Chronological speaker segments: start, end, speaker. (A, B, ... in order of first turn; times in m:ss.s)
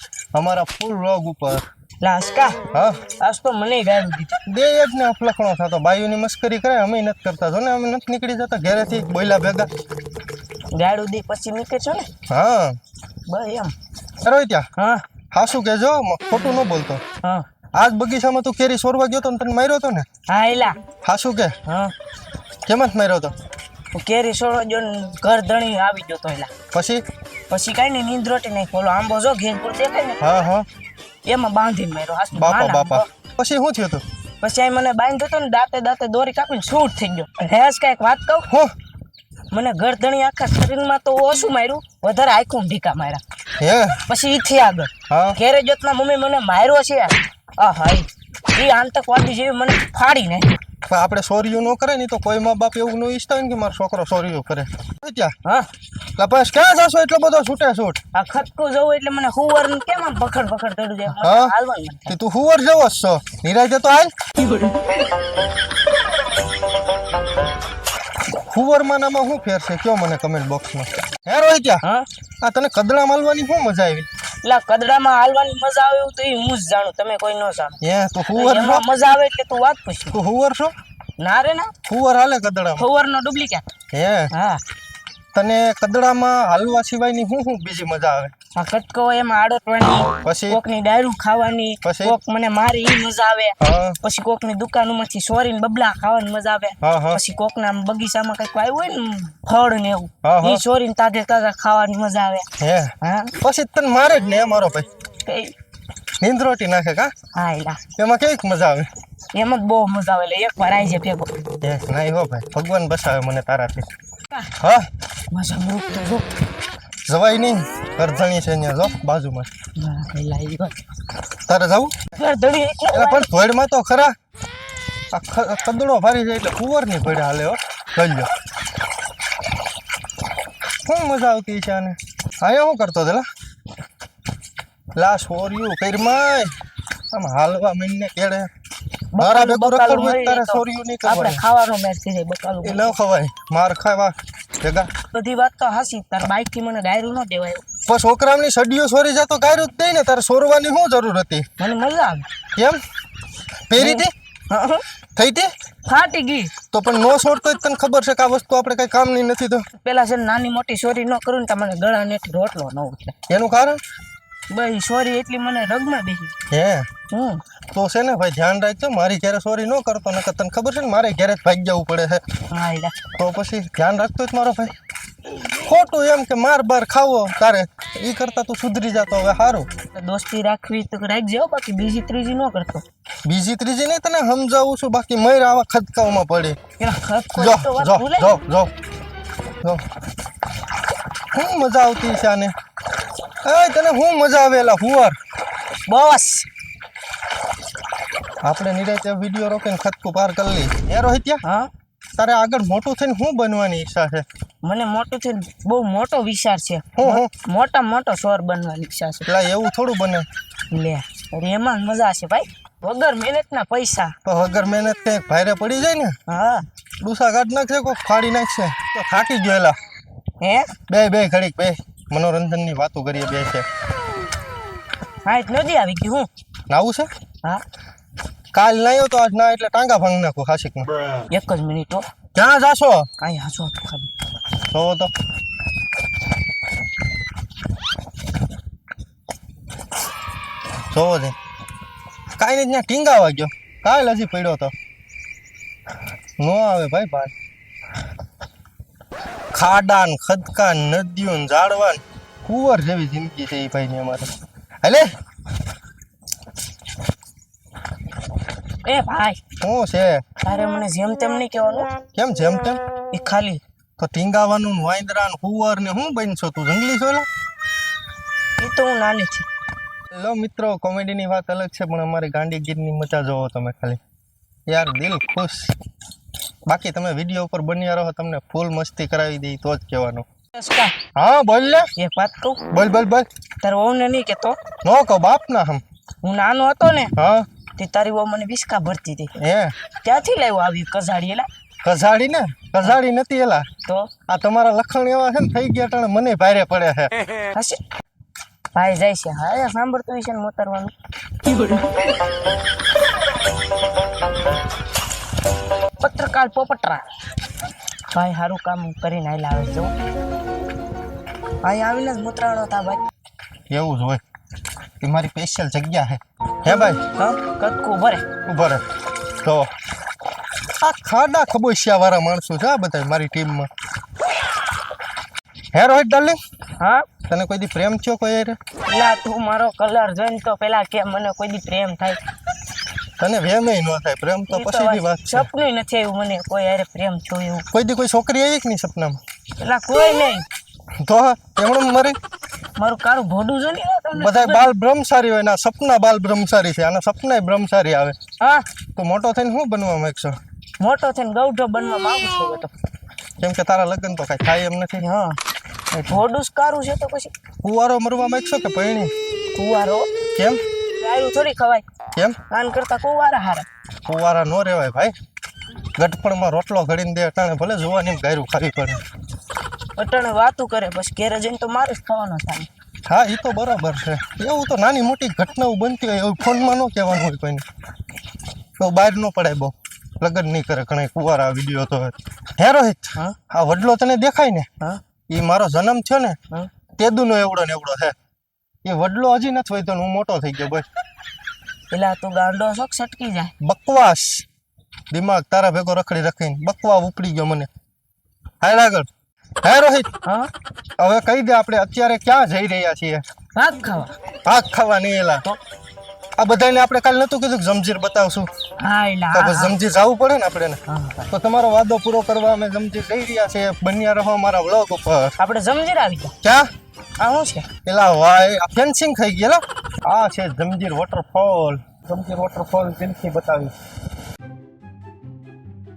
0:00.3-0:01.6 A
0:02.0-0:02.6 B
0:02.7-0:03.0 A
0:03.2-0:04.4 B
0:04.5-0:09.7 A
0:10.7-0:12.1 B
0:12.3-0:12.8 A
0:13.3-0:13.7 B
0:14.2-0:14.7 A
0:14.8-0:15.0 B
0:15.3-0:17.0 A
0:17.8-0:20.1 A
0:20.3-0:20.8 B
0:21.0-0:21.6 A
0:21.7-0:21.9 B
0:22.7-0:23.3 A
0:23.9-0:26.5 B
0:26.7-0:27.0 A
0:27.5-0:30.2 B
0:30.2-0:30.6 A
0:31.2-0:33.1 B
0:32.3-0:34.0 A
0:34.4-0:38.5 B
0:39.5-0:43.2 B
0:43.6-0:44.0 A
0:44.1-0:50.5 B
0:45.1-0:45.4 A
0:50.9-0:55.4 A
0:56.2-0:58.0 A
0:58.1-1:02.2 B
1:01.2-1:01.5 A
1:02.1-1:04.1 A
1:08.4-1:11.8 A
1:11.8-1:12.1 B
1:12.4-1:14.1 A
1:14.4-1:17.8 B
1:17.8-1:18.8 A
1:18.3-1:20.2 B
1:20.1-1:20.7 A
1:21.2-1:21.7 B
1:21.9-1:22.9 A
1:22.8-1:23.7 B
1:23.9-1:24.3 A
1:24.3-1:24.6 B
1:25.3-1:28.3 A
1:28.6-1:42.5 B
1:30.2-1:30.6 A
1:31.8-1:32.2 A
1:33.6-1:34.0 A
1:36.8-1:37.2 A
1:40.2-1:40.6 A
1:42.6-1:44.9 A
1:43.0-1:43.4 B
1:45.3-1:45.5 B
1:46.2-1:47.1 A
1:47.3-1:47.8 B
1:48.0-1:48.9 A
1:49.3-1:51.3 B
1:51.6-1:53.9 A
1:54.5-1:54.9 A
1:55.3-1:56.3 B
1:57.1-1:59.5 A
1:59.8-2:00.8 B
2:01.5-2:02.1 A
2:02.1-2:03.3 B
2:02.9-2:04.2 A
2:05.1-2:08.3 A
2:10.9-2:13.3 A
2:15.0-2:16.5 A
2:17.1-2:18.5 A
2:19.1-2:23.0 B
2:19.2-2:21.4 A
2:22.6-2:24.9 A
2:25.1-2:27.6 B
2:27.9-2:31.5 A
2:31.6-2:32.3 B
2:33.7-2:34.1 A
2:33.8-2:34.8 B
2:35.2-2:35.5 A
2:35.9-2:36.5 B
2:36.7-2:39.7 A
2:39.7-2:43.2 B
2:43.3-2:43.8 A
2:44.5-2:46.3 B
2:46.5-2:46.9 A
2:47.1-2:47.4 B
2:47.7-2:52.2 A
2:52.5-2:53.0 B
2:53.2-2:54.8 A
2:55.6-2:59.7 A
2:59.9-3:02.8 B
3:03.3-3:06.6 A
3:06.8-3:08.4 B
3:07.4-3:08.7 A
3:11.3-3:12.5 A
3:13.4-3:15.2 A
3:15.9-3:16.5 B
3:18.4-3:21.4 A
3:21.4-3:21.7 B
3:22.2-3:24.2 A
3:24.6-3:29.3 B
3:27.0-3:27.3 A
3:29.3-3:30.3 A
3:30.7-3:34.2 B
3:34.2-3:36.2 A
3:36.3-3:36.7 B
3:37.0-3:39.8 A
3:40.4-3:40.7 B
3:40.9-3:43.7 A
3:45.2-3:46.3 B
3:46.7-3:47.1 A
3:48.5-3:50.9 A
3:51.3-3:52.1 B
3:52.3-3:53.1 A
3:53.2-3:54.1 B
3:54.7-3:55.1 A
4:00.9-4:01.4 A
4:02.4-4:04.7 A
4:06.4-4:07.3 A
4:09.5-4:14.3 A
4:14.8-4:15.1 A
4:18.8-4:19.4 B
4:19.6-4:20.2 A
4:20.4-4:21.9 B
4:22.2-4:22.8 A
4:23.1-4:23.6 B
4:24.0-4:27.3 A
4:28.6-4:29.5 B
4:30.1-4:34.0 A
4:34.7-4:35.7 A
4:36.7-4:40.3 A
4:40.5-4:41.0 B
4:41.2-4:41.9 A
4:42.0-4:42.7 B
4:42.7-4:43.3 A
4:43.6-4:44.6 B
4:44.8-4:45.8 A
4:46.2-4:47.1 B
4:47.2-4:47.5 A
4:47.8-4:49.3 B
4:49.4-4:49.8 A
4:50.0-4:51.5 B
4:51.8-4:53.7 A
4:53.8-4:54.1 B
4:54.3-4:57.2 A
4:57.5-4:57.8 B
4:58.8-5:00.9 B
5:06.0-5:07.0 B
5:08.1-5:09.9 B
5:11.6-5:13.0 B
5:13.7-5:14.2 A
5:15.0-5:17.0 A
5:16.7-5:18.2 B
5:18.5-5:18.8 A
5:19.4-5:19.7 A
5:20.8-5:23.7 A
5:25.7-5:26.4 A
5:26.8-5:27.1 B
5:27.3-5:28.6 A
5:28.9-5:32.2 B
5:33.2-5:35.5 A
5:34.5-5:37.7 B
5:37.7-5:39.2 A
5:39.6-5:40.5 B
5:41.0-5:42.2 A
5:42.8-5:44.7 B
5:44.2-5:48.2 A
5:48.4-5:48.7 B
5:49.0-5:50.4 A
5:50.8-5:52.7 B
5:53.4-5:55.0 A
5:55.0-5:55.4 B
5:56.1-5:57.3 B
5:57.6-5:59.1 A
5:59.6-6:00.1 B
6:00.4-6:00.6 A
6:01.0-6:01.8 B
6:02.5-6:03.7 B
6:04.1-6:05.1 A
6:06.0-6:09.0 A
6:10.0-6:12.7 B
6:13.1-6:17.6 A
6:18.8-6:24.7 A
6:25.3-6:26.4 A
6:27.0-6:28.2 A
6:28.8-6:30.9 A
6:31.9-6:33.5 B
6:33.6-6:34.4 A
6:35.1-6:37.7 A
6:38.6-6:39.1 A
6:39.6-6:40.1 A
6:40.2-6:40.5 B
6:41.0-6:43.2 A
6:43.6-6:44.2 B
6:44.5-6:45.4 A
6:46.4-6:48.5 A
6:48.8-6:49.7 B
6:49.3-6:55.4 A
6:50.9-6:51.3 B
6:55.4-6:56.4 B
6:56.4-6:56.7 A
6:57.2-6:57.7 B
6:57.8-7:03.7 A